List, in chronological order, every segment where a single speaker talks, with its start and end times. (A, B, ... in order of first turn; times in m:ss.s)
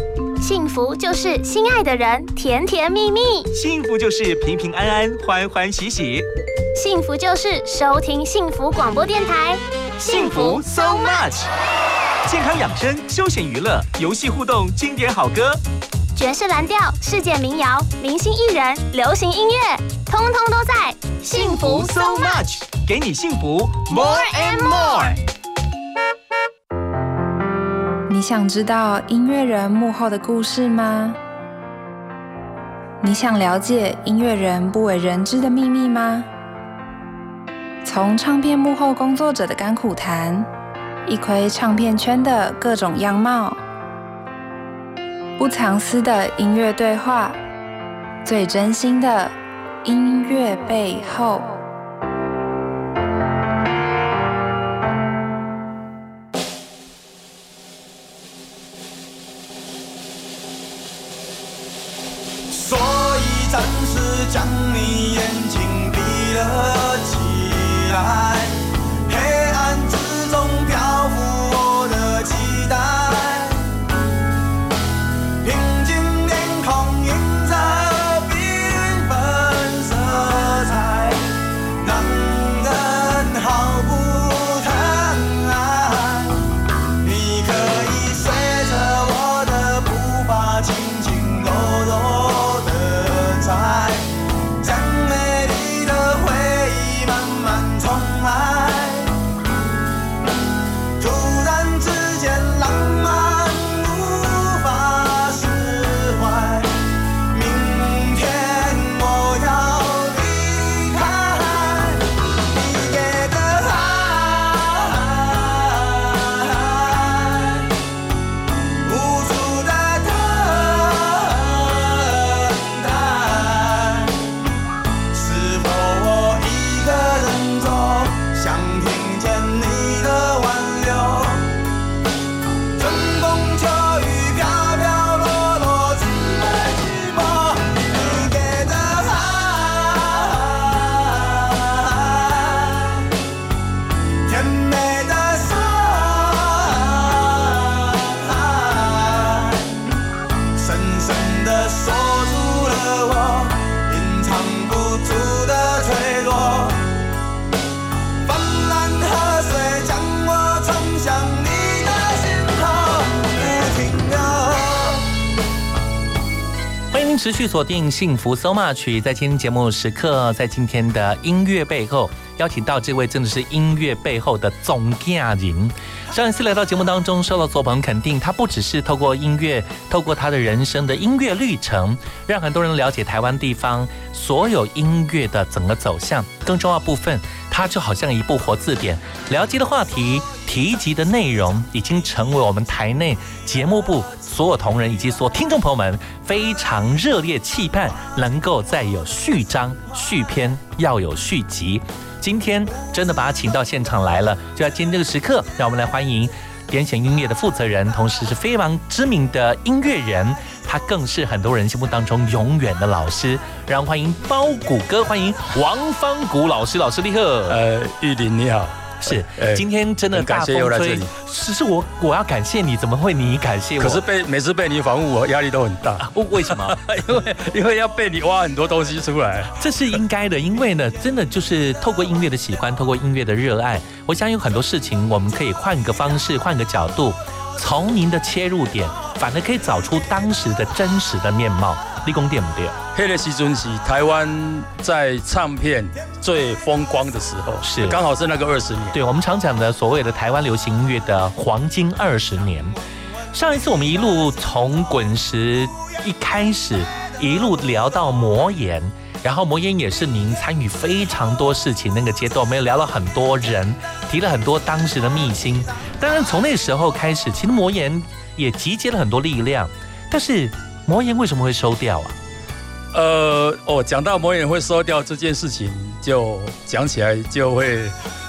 0:00.4-0:03.5 A
0:03.5-0:06.3 B
0:06.8-0:11.3 A
0:10.1-0:11.5 B
0:12.2-0:15.6 B
0:16.2-0:22.4 A
0:21.3-0:25.2 B
0:23.9-0:25.0 A
0:28.1-0:31.2 C
0:33.0-0:36.3 C
0:37.8-0:40.5 C
0:41.1-0:43.6 C
0:45.4-0:47.4 C
0:48.2-0:51.5 C
1:02.5-1:08.6 D
1:09.1-1:13.6 D
1:15.4-1:21.2 D
1:21.8-1:26.4 D
1:27.0-1:34.1 D
1:34.6-1:39.1 D
1:41.0-1:46.7 D
1:47.3-1:57.7 D
1:58.8-2:04.2 D
2:05.1-2:11.6 D
2:12.8-2:23.1 D
2:24.3-2:29.7 D
2:30.6-2:36.8 D
2:38.2-2:45.1 D
2:46.9-3:37.6 E
3:37.5-3:41.1 F
3:39.0-3:44.0 E
3:43.8-3:49.6 F
3:46.0-3:47.2 E
3:49.6-4:02.8 E
4:02.9-4:09.0 F
4:07.6-4:08.0 E
4:08.9-4:12.8 E
4:13.3-4:32.2 E
4:32.9-4:38.0 F